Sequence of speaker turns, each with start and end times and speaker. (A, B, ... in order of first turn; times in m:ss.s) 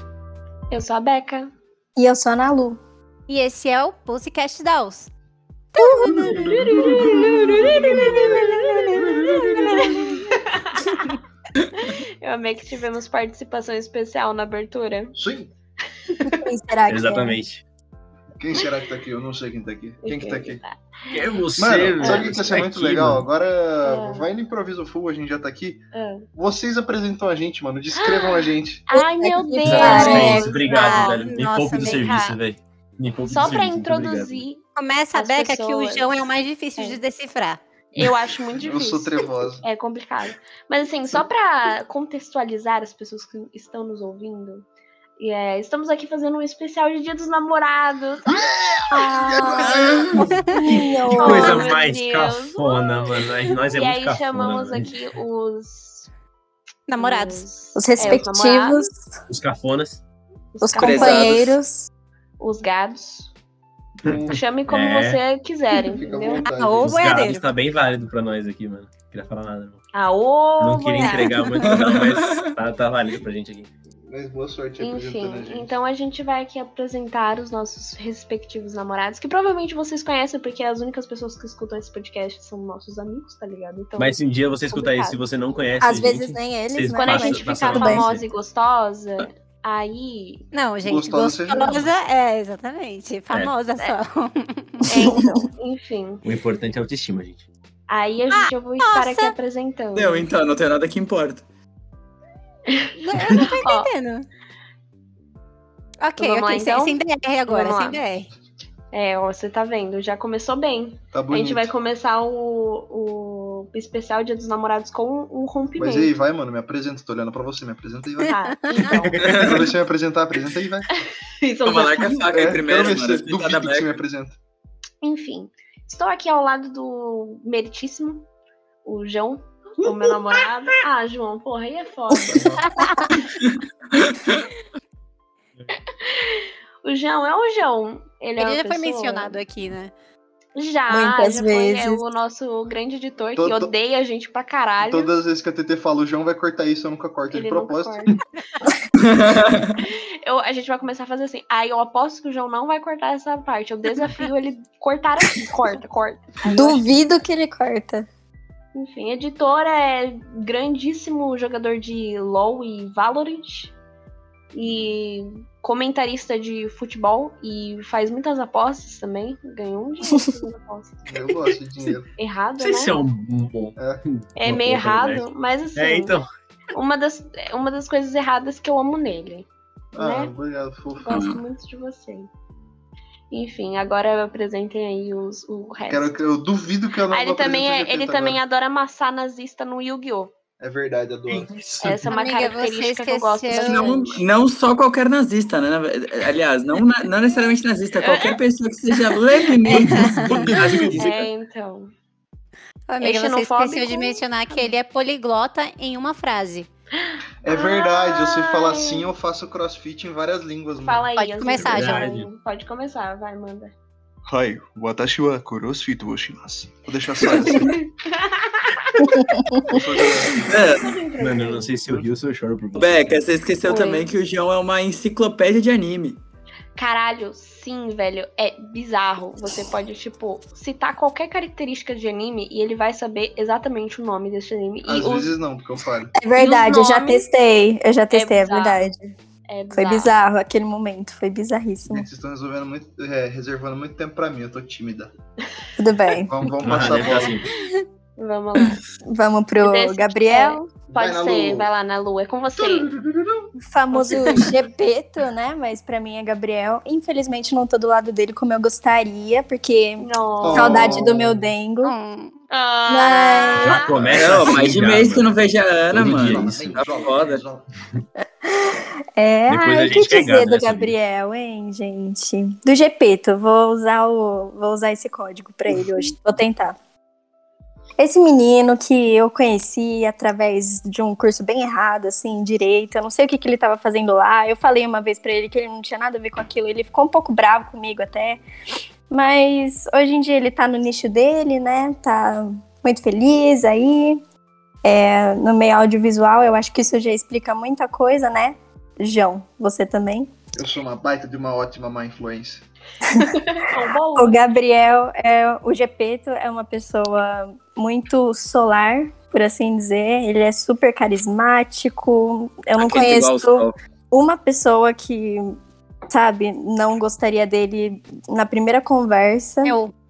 0:00.7-0:01.5 A
0:02.0-0:02.8 B
0:03.3-0:05.1 C
0:05.7-0:09.5 C
0:06.1-0:10.3 D
0:06.4-0:08.7 A
0:09.7-0:10.9 A
0:11.8-0:15.1 A
0:15.1-0:15.5 D
0:16.1-0:16.4 A
0:16.2-0:17.4 B
0:16.9-0:17.6 E
0:18.4-0:20.6 D
0:20.0-0:21.3 A
0:21.1-0:23.3 E
0:21.6-0:28.9 D
0:22.0-0:22.3 A
0:23.8-0:24.3 A
0:25.9-0:26.3 A
0:28.0-0:32.4 A
0:28.9-0:30.5 B
0:29.6-0:34.4 E
0:29.7-0:32.3 C
0:33.3-0:34.6 A
0:34.7-0:37.6 C
0:35.1-0:36.1 A
0:37.9-0:44.6 A
0:38.6-0:39.6 D
0:45.2-0:48.3 A
0:48.3-0:50.4 D
0:48.9-0:51.7 B
0:50.1-0:50.4 C
0:50.2-0:55.0 E
0:51.2-0:56.1 A
0:56.9-0:57.4 C
0:57.0-0:58.9 A
0:57.8-0:59.1 B
0:59.3-1:00.0 E
1:00.5-1:01.4 A
1:00.6-1:01.9 B
1:00.8-1:01.6 F
1:02.4-1:03.3 A
1:04.0-1:05.2 E
1:04.0-1:04.4 D
1:04.3-1:06.5 A
1:05.9-1:07.2 D
1:06.4-1:07.5 C
1:06.8-1:09.8 E
1:09.9-1:11.8 A
1:10.6-1:13.7 E
1:11.5-1:12.5 F
1:14.1-1:15.7 D
1:14.8-1:25.2 A
1:24.0-1:28.2 E
1:25.8-1:28.1 B
1:26.9-1:30.4 A
1:30.5-1:35.1 C
1:30.8-1:31.9 D
1:34.8-1:36.2 A
1:34.9-1:35.4 B
1:36.2-1:37.5 E
1:37.9-1:40.3 A
1:38.3-1:39.3 C
1:39.9-1:41.4 F
1:42.7-1:42.9 A
1:43.0-1:44.3 C
1:43.6-1:43.9 A
1:46.0-1:48.3 C
1:46.2-1:48.0 A
1:48.9-1:56.1 A
1:51.1-1:51.7 D
1:55.8-1:58.3 D
1:58.3-1:59.4 A
1:58.5-1:58.8 C
1:58.8-1:59.7 E
1:58.9-2:00.9 D
1:59.2-1:59.7 F
2:00.9-2:02.3 A
2:01.6-2:04.0 F
2:02.3-2:04.4 D
2:05.0-2:08.2 A
2:08.8-2:12.6 A
2:12.1-2:12.4 B
2:12.3-2:12.6 D
2:12.7-2:13.2 C
2:13.4-2:14.5 F
2:15.9-2:19.4 A
2:18.4-2:19.9 C
2:20.6-2:25.1 A
2:20.9-2:22.0 B
2:23.4-2:23.7 D
2:24.8-2:28.0 D
2:27.3-2:28.2 A
2:29.0-2:29.8 F
2:29.8-2:36.9 A
2:36.4-2:38.1 B
2:38.7-2:43.7 A
2:44.5-2:51.0 A
2:51.0-2:52.1 D
2:52.2-2:53.0 A
2:52.6-2:55.2 E
2:53.8-2:54.0 D
2:54.4-2:56.2 A
2:55.8-2:56.3 E
2:56.7-3:00.3 A
2:59.9-3:01.2 D
3:01.0-3:02.3 A
3:01.1-3:01.4 F
3:03.3-3:06.1 A
3:05.9-3:08.4 D
3:07.1-3:10.3 A
3:10.6-3:11.5 D
3:11.3-3:12.0 E
3:11.8-3:14.2 A
3:12.1-3:14.0 C
3:13.5-3:21.2 F
3:18.0-3:18.4 A
3:19.6-3:20.9 C
3:19.8-3:21.2 E
3:21.0-3:21.9 A
3:22.9-3:26.7 C
3:23.0-3:24.8 A
3:27.0-3:29.1 A
3:27.4-3:31.1 D
3:30.8-3:33.7 A
3:31.2-3:32.1 C
3:31.6-3:32.3 E
3:34.3-3:37.8 D
3:37.3-3:38.9 A
3:39.0-3:39.5 B
3:39.6-3:40.7 D
3:40.4-3:40.9 F
3:40.7-3:41.8 A
3:41.2-3:43.2 E
3:42.8-3:46.2 F
3:43.6-3:44.1 A
3:46.8-3:55.3 A
3:54.8-3:56.1 D
3:56.1-3:59.1 B
3:56.4-3:57.2 A
3:58.1-3:58.9 A
3:59.5-4:00.2 A
3:59.7-4:02.1 B
4:01.9-4:05.1 D
4:05.8-4:06.5 B
4:06.2-4:07.4 D
4:06.6-4:07.5 E
4:06.8-4:07.3 A
4:08.2-4:08.8 A
4:09.0-4:10.6 B
4:09.6-4:12.9 A
4:10.9-4:11.7 D
4:12.5-4:13.5 D
4:13.6-4:21.9 B
4:13.9-4:14.6 A
4:20.0-4:21.1 A
4:20.4-4:21.5 D
4:21.8-4:22.4 C
4:22.5-4:24.2 A
4:22.9-4:23.9 B
4:23.6-4:25.4 E
4:24.1-4:27.4 F
4:25.9-4:26.8 E
4:25.9-4:27.7 D
4:28.2-4:36.8 B
4:29.5-4:30.9 E
4:38.0-4:48.4 B
4:49.1-4:54.2 B
4:54.8-5:00.3 B
5:00.5-5:02.6 D
5:03.0-5:03.3 B
5:03.2-5:04.4 A
5:04.1-5:15.6 B
5:12.8-5:13.7 F
5:16.1-5:19.7 B
5:19.6-5:19.9 C